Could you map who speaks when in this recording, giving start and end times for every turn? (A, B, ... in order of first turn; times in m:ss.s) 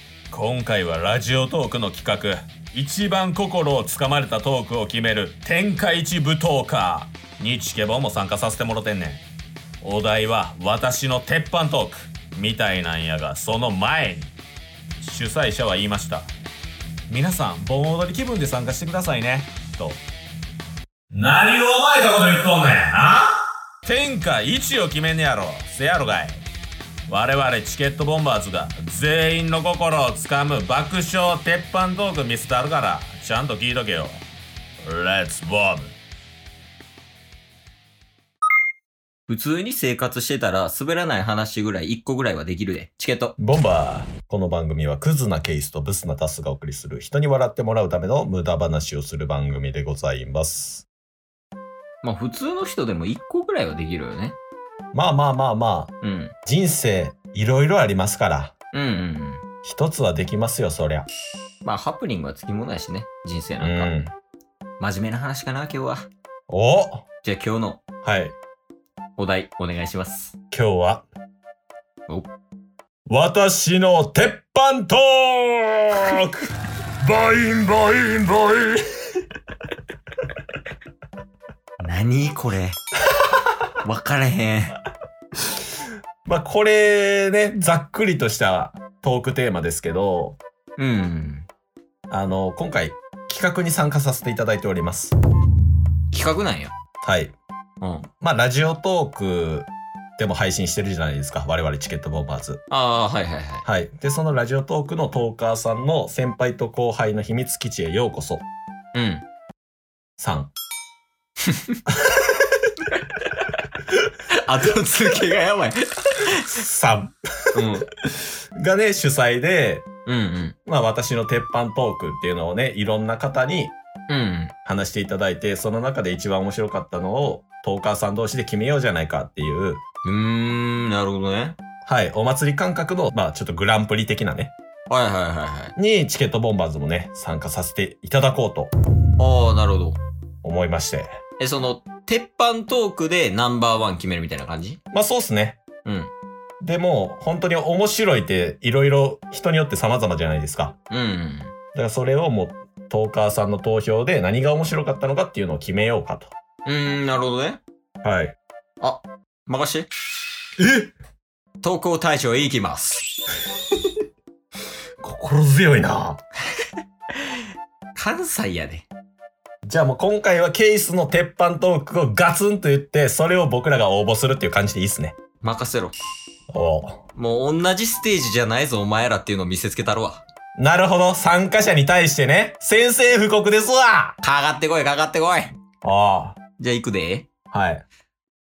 0:00.3-0:09.2 A
0:09.8-0:14.3 A
0:15.0-0:16.3 A
0:17.1-0:20.0 A
0:21.2-0:23.2 A
0:21.2-0:22.2 B
0:22.8-0:23.2 B
0:23.9-0:26.4 A
0:27.1-0:34.2 A
0:34.8-0:35.9 A
0:39.3-0:43.4 C
0:43.4-0:50.9 B
0:52.0-0:54.4 C
0:54.9-0:55.9 B
0:56.0-0:56.3 C
0:56.4-0:58.5 B
0:58.7-0:59.4 C
0:59.6-1:01.1 B
1:01.6-1:03.9 C
1:03.6-1:04.1 B
1:04.8-1:06.1 C
1:06.5-1:07.0 B
1:07.2-1:07.8 C
1:08.0-1:08.3 B
1:09.2-1:10.4 C
1:10.5-1:11.0 B
1:13.1-1:16.5 B
1:17.0-1:18.8 B
1:21.8-1:22.8 C
1:23.8-1:24.8 C
1:26.2-1:30.4 B
1:30.8-1:31.5 C
1:32.1-1:35.1 B
1:36.1-1:36.7 C
1:37.0-1:37.3 B
1:37.8-1:38.0 C
1:38.2-1:42.6 B
1:42.7-1:43.6 C
1:43.6-1:48.4 B
1:48.9-1:49.2 C
1:50.2-1:50.5 B
1:51.4-1:51.8 C
1:51.9-1:52.4 B
1:52.9-1:56.6 C
1:56.4-1:57.8 B
1:57.5-1:57.8 C
1:58.6-1:59.8 B
2:00.0-2:00.6 C
2:00.6-2:03.7 B
2:04.1-2:04.5 C
2:04.6-2:09.8 B
2:10.0-2:11.6 C
2:11.8-2:14.5 B
2:14.9-2:15.8 C
2:15.8-2:18.7 B
2:19.2-2:20.0 C
2:20.4-2:21.2 B
2:21.4-2:24.8 C
2:24.9-2:25.6 B
2:25.8-2:26.1 C
2:26.6-2:30.8 B
2:30.9-2:31.5 C
2:31.8-2:36.3 B
2:36.6-2:37.6 C
2:38.0-2:38.3 B
2:38.8-2:39.9 C
2:40.6-2:40.9 B
2:41.6-2:43.0 C
2:45.0-2:46.2 B
2:47.2-2:47.4 C
2:47.9-2:48.9 C
2:49.6-2:55.1 B
2:55.4-2:56.0 C
2:56.5-2:57.0 B
2:57.1-3:00.2 C
3:00.6-3:04.2 B
3:04.2-3:05.6 C
3:05.8-3:06.4 B
3:06.6-3:07.3 C
3:07.5-3:07.8 B